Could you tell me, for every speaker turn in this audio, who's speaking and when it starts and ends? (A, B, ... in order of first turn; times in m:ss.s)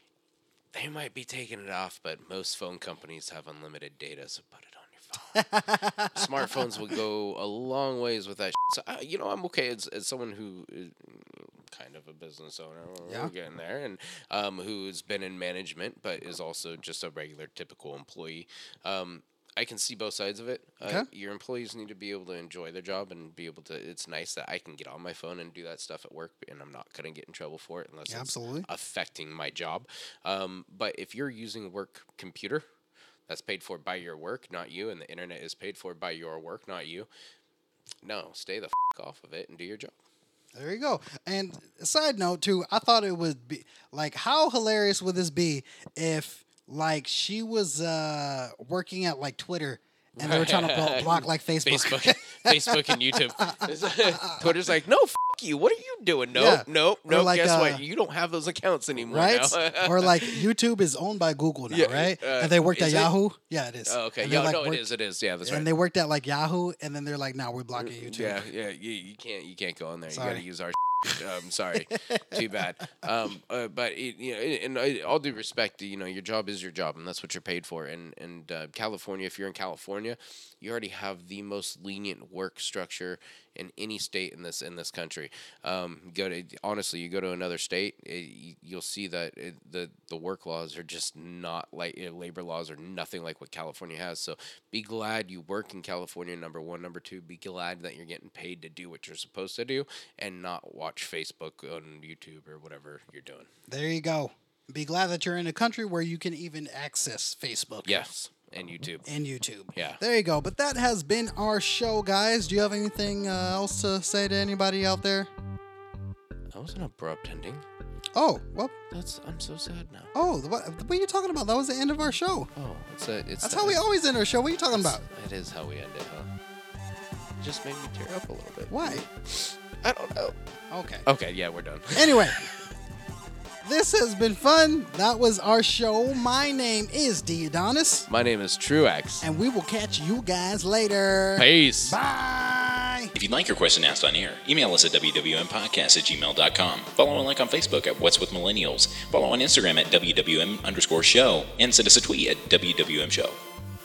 0:00.7-0:05.4 A
0:05.4-0:06.6 B
0:06.1-0:32.6 A
0:13.0-0:13.3 B
0:28.1-0:28.7 B
0:33.3-0:37.1 A
0:38.0-0:39.9 A
0:40.6-0:54.6 B
0:50.2-1:00.4 A
0:56.3-0:57.8 B
0:59.0-1:04.9 B
1:01.7-1:03.1 A
1:03.9-1:05.7 A
1:05.4-1:08.5 B
1:07.8-1:43.5 A
1:10.1-1:10.4 B
1:12.1-1:12.5 B
1:43.7-1:48.0 B
1:47.8-1:49.1 A
1:49.1-1:55.3 B
1:49.7-1:50.0 A
1:56.5-1:57.6 A
1:58.2-1:58.7 B
1:58.9-2:00.1 A
2:00.1-2:02.5 B
2:02.6-2:03.8 A
2:03.4-2:05.0 B
2:04.7-2:06.3 A
2:07.4-2:10.4 A
2:08.7-2:09.0 B
2:10.7-2:11.0 B
2:11.1-2:12.5 A
2:12.0-2:12.4 B
2:13.6-2:18.1 B
2:18.1-2:19.3 A
2:19.2-2:23.1 B
2:21.4-2:22.0 A
2:23.2-2:33.4 C